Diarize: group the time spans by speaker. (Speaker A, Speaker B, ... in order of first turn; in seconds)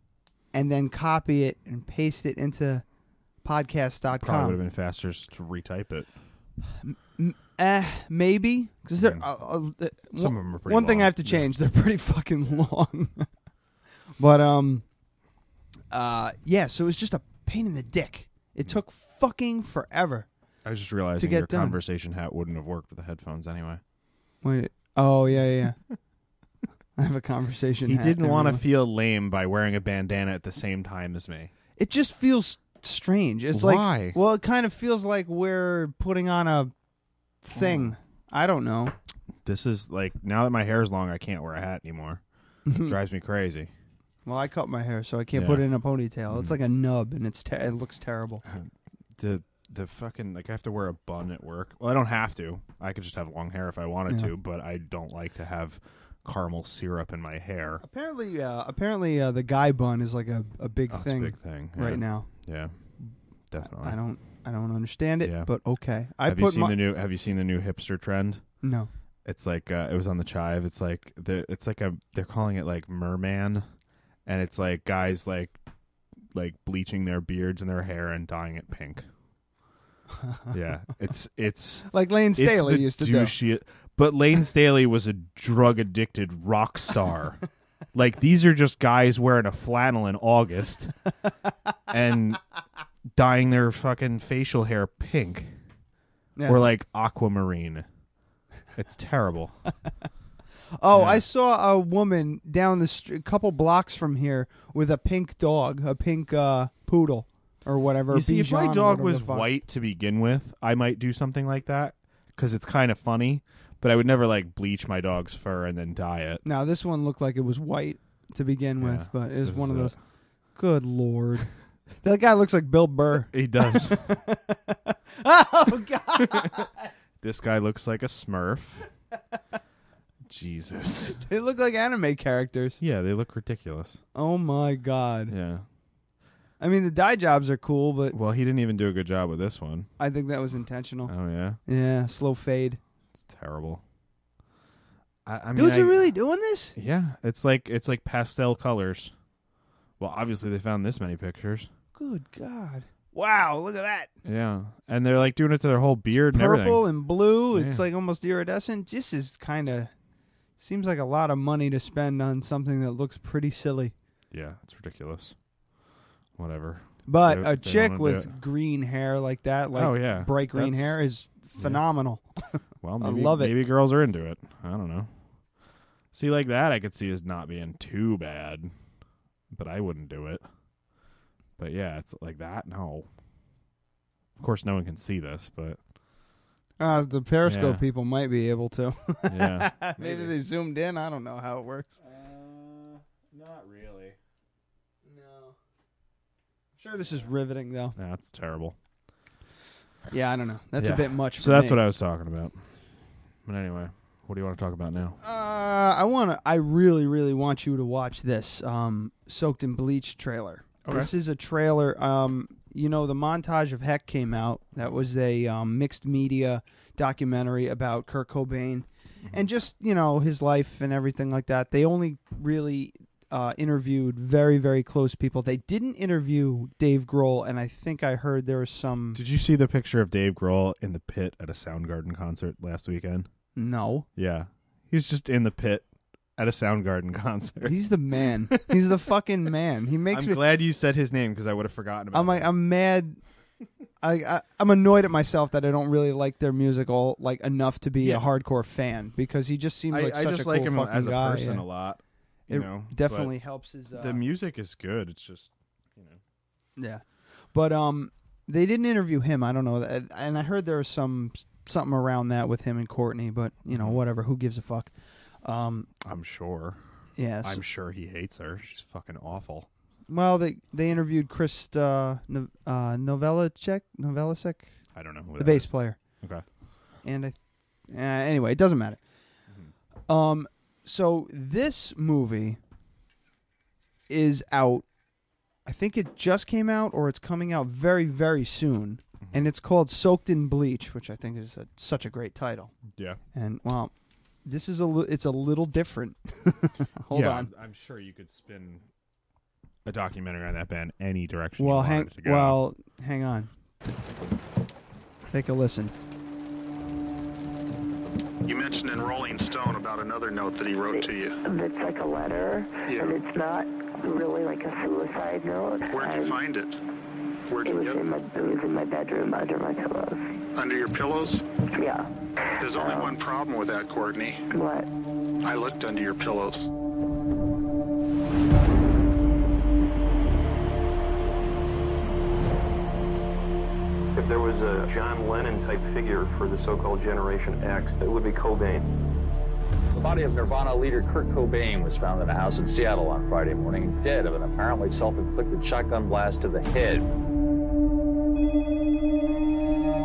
Speaker A: 0.5-2.9, 3.4-4.6, 6.8-13.3, 14.2-14.8, 15.9-20.3, 21.2-21.8, 24.4-25.8, 27.0-28.6, 31.8-36.7, 37.4-39.0, 42.7-43.0, 44.3-48.4, 57.8-62.3, 63.8-66.9, 68.6-68.9, 80.2-80.5, 81.9-83.3, 96.4-96.7, 100.8-109.5, 116.4-120.0, 120.5-126.8, 131.2-132.8, 134.2-135.3, 136.6-138.2, 140.0-141.1, 141.7-142.8, 145.6-146.8, 151.9-154.1, 156.1-159.9, 160.6-163.9, 167.1-173.6, 186.8-192.0, 195.1-195.6, 196.8-198.0, 200.1-201.8, 205.2-229.2, 233.6-234.1, 237.6-240.4, 242.1-243.2, 244.0-251.7, 252.5-254.2, 256.8-264.9, 265.4-265.9, 267.2-267.6, 270.1-274.7, 275.4-276.0, 277.0-277.4, 277.9-279.0, 280.1-282.6, 284.1-284.9, 285.6-292.7, 293.3-293.9, 294.4-297.5, 301.6-303.5, 305.3-305.9
Speaker B: 4.1-6.1, 9.0-9.3, 10.2-11.5, 20.6-23.8, 27.9-31.5, 33.5-34.2, 37.5-37.9, 39.5-42.2, 42.8-43.7, 45.3-45.7, 46.3-46.6, 48.5-57.8, 60.9-62.8, 63.5-64.0, 65.2-65.5, 66.2-68.5, 69.2-73.7, 74.3-75.6, 76.3-79.1, 80.5-87.4, 87.9-90.9, 91.9-92.4, 93.1-95.5, 96.5-97.9, 98.8-99.6, 100.9-101.2, 108.1-116.4, 118.8-120.0, 123.3-124.0, 126.2-126.7, 127.2-128.9, 130.3-131.2, 132.8-134.0, 135.3-135.7, 138.1-139.9, 141.1-141.6, 143.2-143.8, 145.2-146.1, 146.8-149.1, 150.0-151.7, 154.2-156.9, 157.5-157.8, 164.3-165.4, 166.4-168.3, 169.7-171.0, 171.6-171.9, 172.8-175.1, 176.1-178.7, 179.5-180.5, 181.6-183.1, 184.4-185.8, 187.5-187.8, 189.3-190.3, 192.0-194.2, 198.0-198.8, 200.8-202.6, 203.4-205.2, 210.8-211.1, 229.2-233.3, 234.2-235.9, 236.4-237.8, 238.4-239.0, 240.1-242.5, 248.0-248.2, 249.9-253.3, 253.9-256.2, 263.7-264.0, 266.0-266.8, 267.4-269.7, 274.9-276.4, 289.2-289.5, 292.9-293.2, 297.1-298.8, 299.9-302.6
Speaker C: 308.4-311.4, 312.9-313.2, 315.9-316.8, 317.5-318.0, 320.6-321.4, 322.6-324.5, 325.4-326.7
Speaker D: 310.9-316.4, 317.6-320.2, 321.7-322.1, 322.6-323.1, 324.5-324.9
Speaker E: 334.2-336.3, 337.9-338.8
Speaker F: 339.9-347.1